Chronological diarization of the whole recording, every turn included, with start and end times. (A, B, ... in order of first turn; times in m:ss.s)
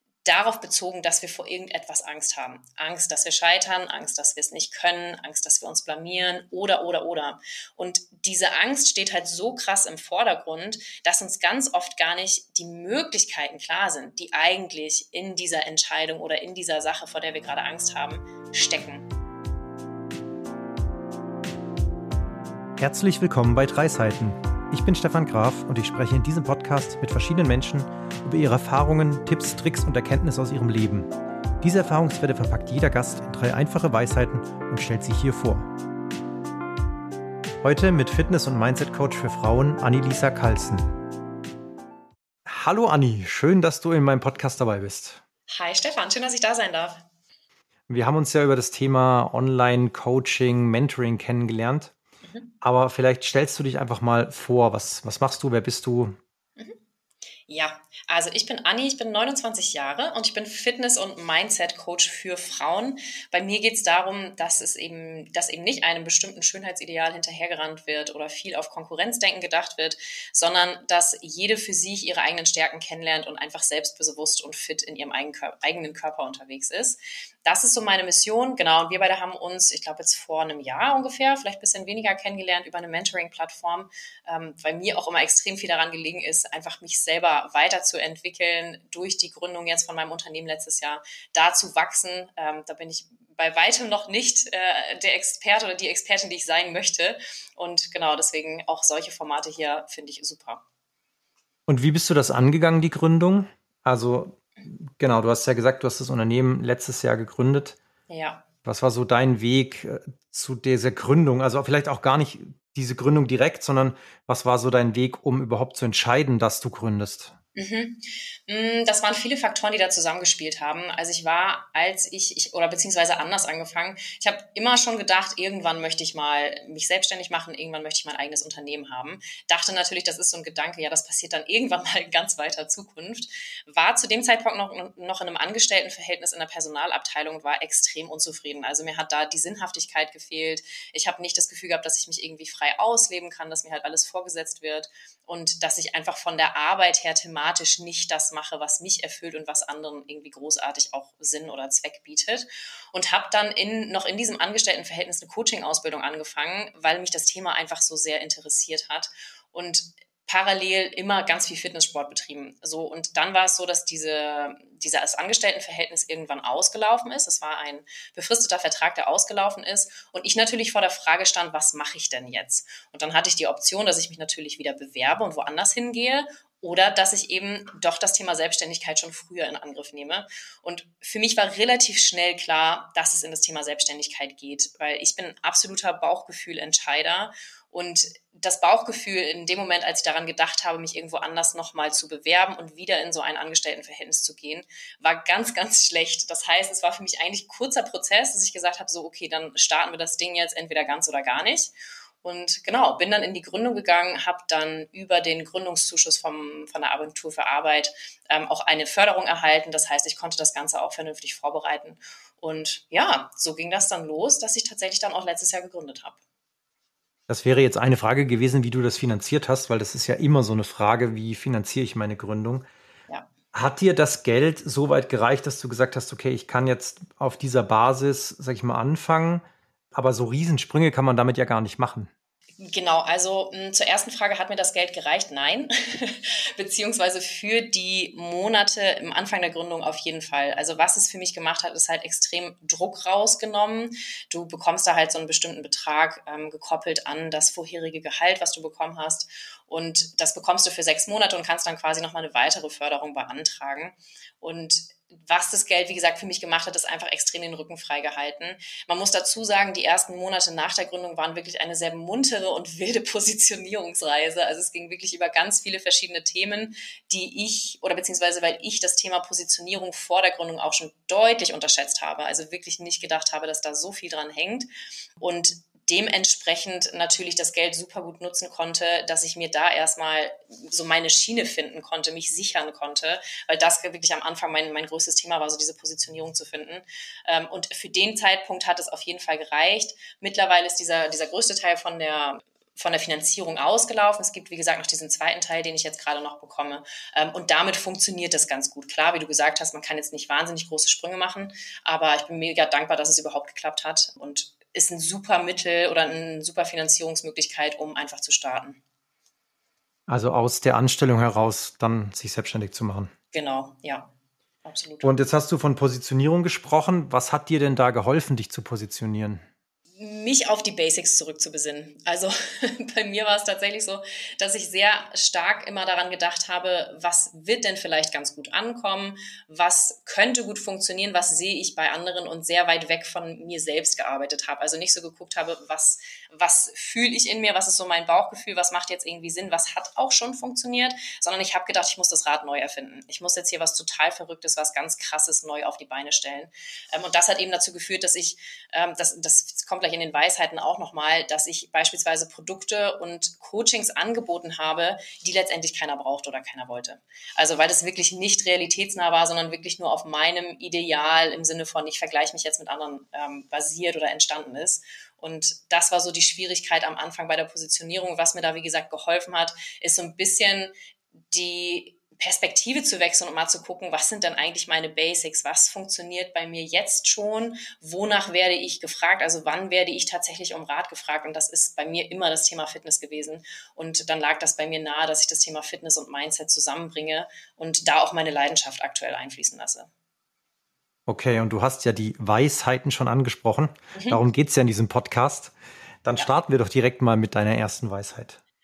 0:00.2-0:19.1 A
0:22.8-0:31.1 B
0:31.6-0:35.7 B
0:37.6-0:40.8 B
0:42.5-0:45.2 B
0:45.5-0:47.0 A
0:47.9-0:51.9 B
0:52.3-0:52.5 A
0:52.6-0:56.2 B
0:57.5-1:40.6 A
1:41.7-1:47.8 B
1:48.1-1:48.4 A
1:48.6-1:57.3 B
1:57.6-3:21.7 A
3:22.2-3:36.2 A
3:37.3-3:42.7 B
3:43.5-3:52.1 B
3:52.6-4:34.7 A
4:35.2-5:08.8 A
5:10.1-5:13.1 B
5:13.3-5:14.1 A
5:14.7-5:15.2 A
5:15.0-5:19.4 B
5:20.0-6:10.7 A
6:11.3-6:29.9 A
6:31.1-6:35.5 B
6:34.0-6:34.2 A
6:36.0-6:38.4 B